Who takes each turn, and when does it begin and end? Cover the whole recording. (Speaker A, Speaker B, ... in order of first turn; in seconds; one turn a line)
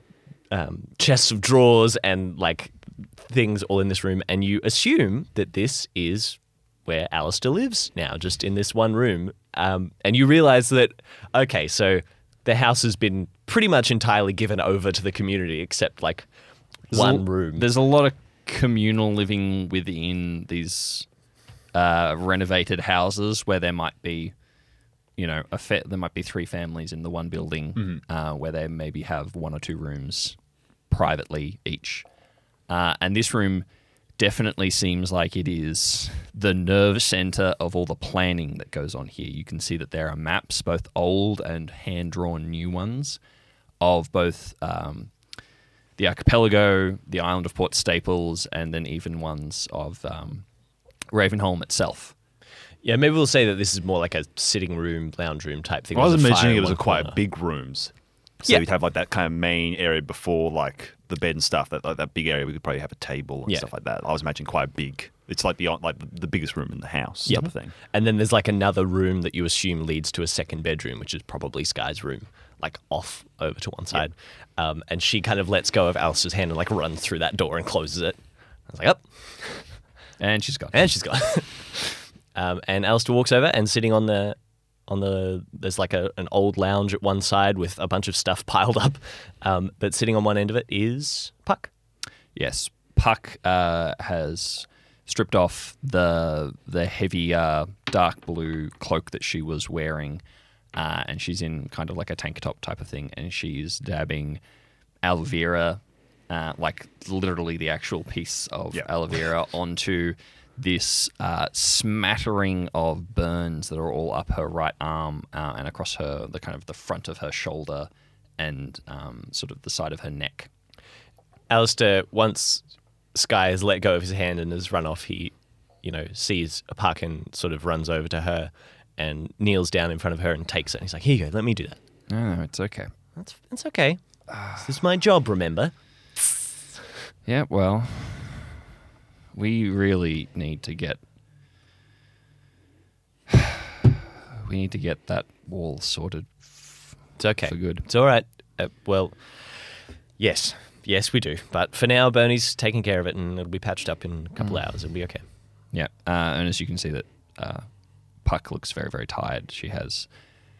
Speaker A: 0.5-17.7
Speaker B: 16.9-24.5
Speaker B: 25.1-32.1
Speaker C: 27.8-28.0
Speaker B: 32.7-33.6
Speaker B: 34.2-43.2
Speaker B: 43.8-45.3
Speaker B: 46.0-50.5
Speaker B: 51.1-52.1
Speaker A: 52.8-57.2
Speaker C: 55.9-67.7
Speaker A: 67.2-79.8
Speaker B: 80.2-81.0
Speaker A: 80.7-91.7
Speaker B: 92.3-100.2
Speaker B: 100.7-104.4
Speaker B: 105.0-120.5
Speaker A: 121.5-131.8
Speaker B: 132.1-132.9
Speaker A: 133.1-136.2
Speaker B: 134.3-134.7
Speaker B: 137.2-138.5
Speaker B: 139.3-141.0
Speaker B: 144.4-147.9
Speaker A: 147.2-155.2
Speaker B: 154.4-154.8
Speaker B: 155.7-160.1